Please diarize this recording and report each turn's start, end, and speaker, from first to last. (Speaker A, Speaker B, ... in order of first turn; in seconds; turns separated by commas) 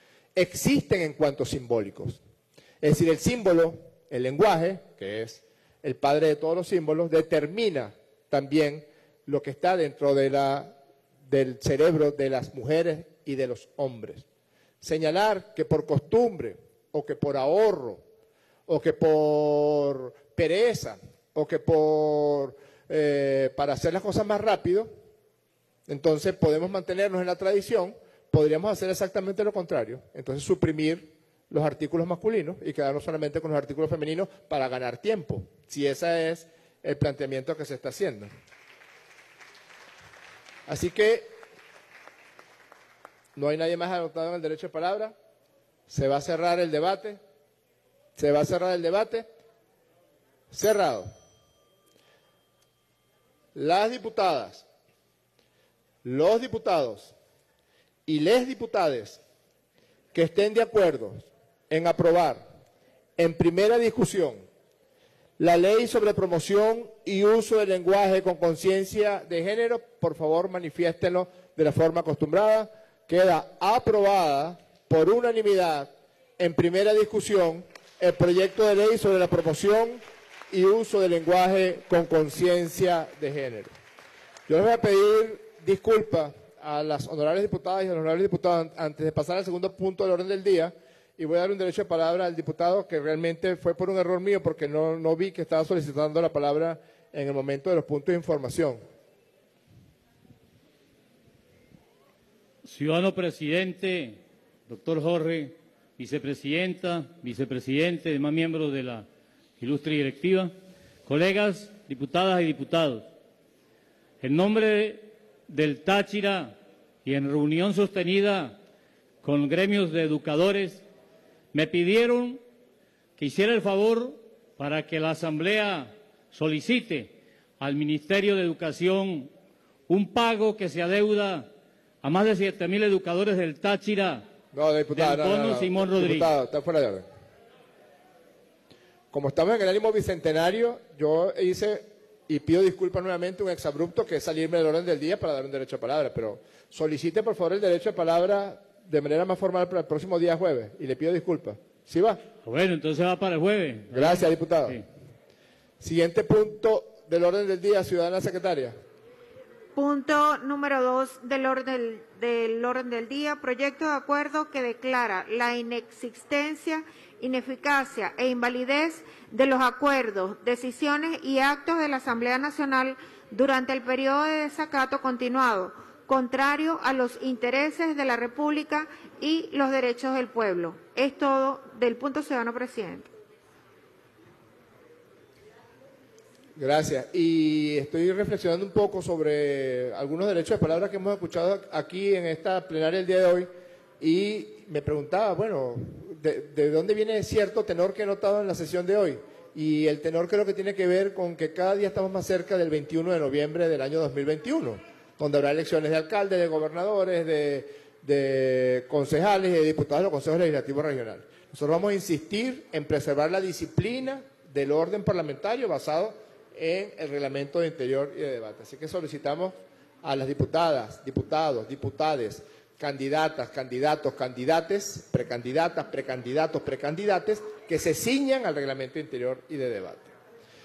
Speaker A: 0.3-2.2, Speaker A: 2.8-14.2, Speaker A: 14.8-18.0, Speaker A: 18.7-24.9, Speaker A: 25.9-38.3, Speaker A: 40.7-41.4, Speaker A: 43.4-45.1, Speaker A: 45.9-47.2, Speaker A: 48.1-49.3, Speaker A: 50.5-51.1, Speaker A: 53.5-54.7, Speaker A: 56.0-57.1, Speaker A: 58.0-59.2, Speaker A: 60.1-62.4, Speaker A: 63.2-64.5, Speaker A: 65.4-83.8, Speaker A: 84.5-98.8, Speaker B: 102.6-109.0, Speaker B: 109.6-110.5, Speaker B: 111.0-113.1, Speaker B: 114.2-118.6, Speaker B: 119.2-120.8, Speaker B: 121.5-122.4, Speaker B: 123.2-129.3, Speaker B: 129.9-131.5, Speaker B: 132.0-134.2, Speaker A: 134.5-137.1, Speaker B: 134.9-136.3, Speaker A: 139.1-152.2, Speaker B: 152.4-154.8, Speaker A: 153.9-154.8, Speaker A: 155.8-158.8, Speaker C: 159.8-183.1, Speaker A: 186.6-230.1